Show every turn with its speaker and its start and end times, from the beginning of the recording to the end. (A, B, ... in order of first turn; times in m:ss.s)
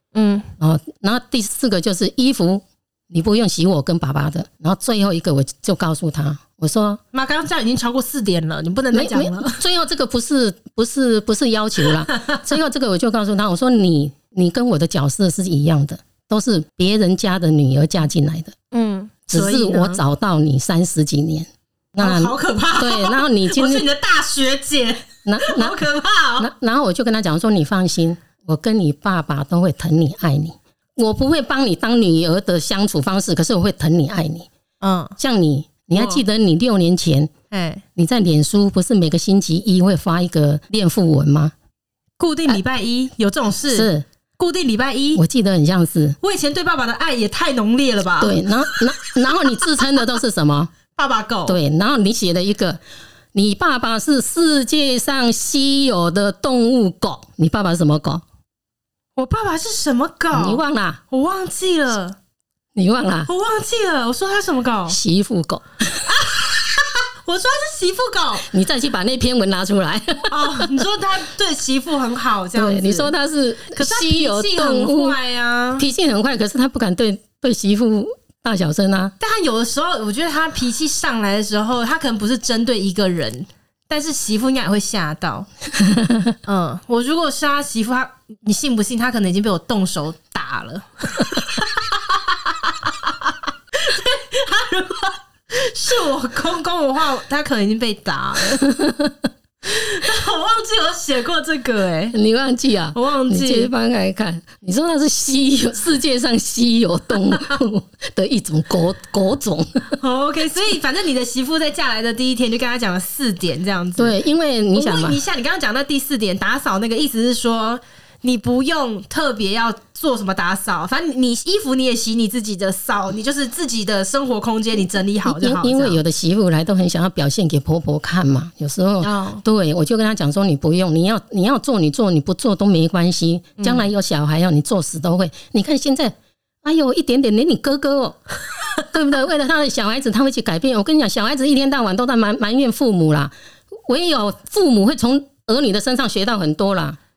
0:00.2-0:00.5 A
0:00.6-0:07.0 B
0:07.1-0:09.6 A
0:08.9-0:18.5 B
0:18.7-0:20.0 A
0:19.3-0:23.8 B
0:22.0-0:26.5 A
0:25.3-0:25.8 B
0:26.4-0:34.5 B
0:34.8-0:35.2 A
0:35.2-0:37.3 B
0:35.9-0:36.2 A
0:37.5-0:37.8 A
0:38.0-0:41.5 B
0:42.2-0:45.2 A
0:43.7-0:44.1 B
0:45.2-0:46.2 B
0:46.2-0:48.8 A
0:48.2-0:50.7 B
0:51.0-0:51.6 A
0:51.5-0:52.8 B
0:53.3-0:58.2 B
0:59.2-1:00.6 A
1:00.3-1:01.0 B
1:01.1-1:02.2 A
1:02.8-1:03.3 B
1:03.3-1:05.0 A
1:04.9-1:06.0 B
1:06.0-1:08.5 A
1:08.5-1:10.8 B
1:10.3-1:13.1 A
1:12.6-1:15.2 B
1:13.7-1:15.8 A
1:15.8-1:19.1 B
1:19.2-1:25.5 A
1:25.8-1:26.3 B
1:26.4-1:38.6 A
1:38.6-1:39.2 B
1:39.6-1:42.2 A
1:42.1-1:50.0 B
1:42.9-1:43.7 A
1:50.0-1:54.2 A
1:54.0-1:55.2 B
1:54.7-2:06.0 A
2:05.2-2:18.2 B
2:09.0-2:09.4 A
2:13.6-2:13.9 A
2:18.9-2:27.0 B